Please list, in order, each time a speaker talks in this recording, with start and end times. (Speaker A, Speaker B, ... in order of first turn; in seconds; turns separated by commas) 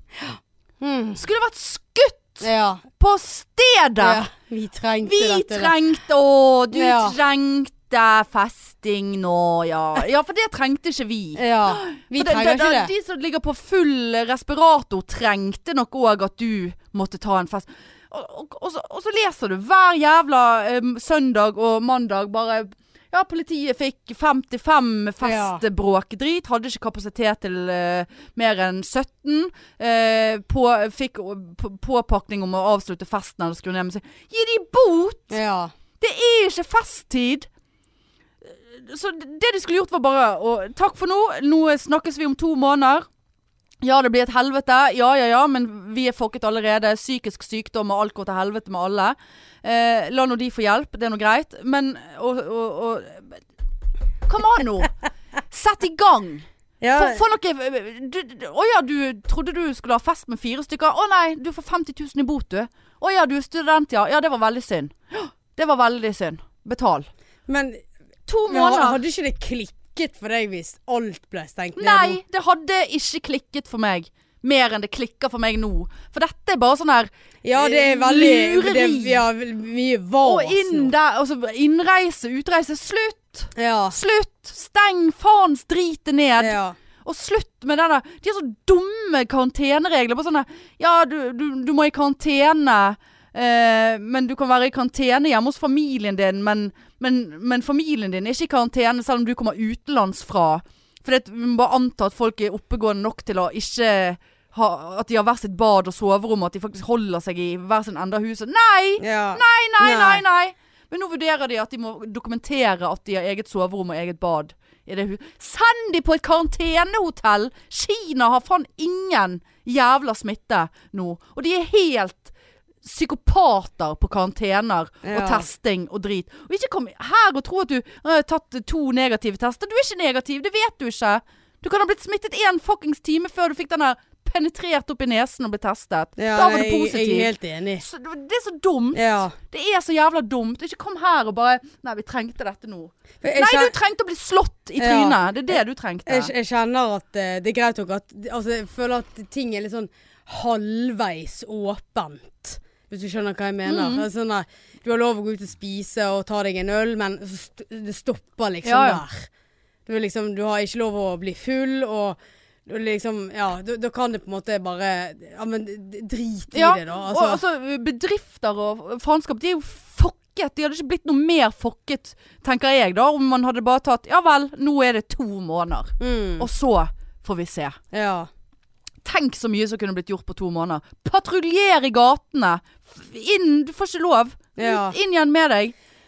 Speaker A: 0.3-1.2, Speaker B: 1.2-2.4, Speaker A: 2.4-2.8, Speaker B: 3.0-4.2, Speaker A: 4.0-5.8, Speaker B: 5.0-35.4, Speaker A: 6.7-7.2, Speaker A: 11.3-12.9, Speaker A: 25.2-25.6, Speaker A: 35.3-35.7, Speaker B: 36.0-37.5, Speaker B: 38.4-43.1, Speaker B: 43.8-53.4, Speaker B: 54.2-54.9, Speaker B: 55.5-67.1, Speaker A: 56.8-57.2, Speaker A: 67.5-67.8, Speaker B: 68.3-69.0, Speaker A: 68.5-72.2, Speaker B: 71.8-79.2, Speaker A: 77.4-80.9, Speaker B: 80.2-122.3, Speaker A: 83.5-84.0, Speaker A: 86.4-86.7, Speaker A: 109.0-110.2, Speaker B: 122.8-146.3, Speaker A: 125.0-125.5, Speaker A: 136.2-137.8, Speaker A: 138.9-139.3, Speaker A: 143.2-143.7, Speaker A: 144.8-145.2, Speaker A: 146.1-159.3, Speaker B: 153.6-154.1, Speaker B: 158.6-159.0, Speaker A: 159.8-167.4, Speaker B: 166.5-177.8, Speaker A: 176.0-176.5, Speaker A: 177.9-178.3, Speaker B: 179.0-185.8, Speaker A: 184.6-184.9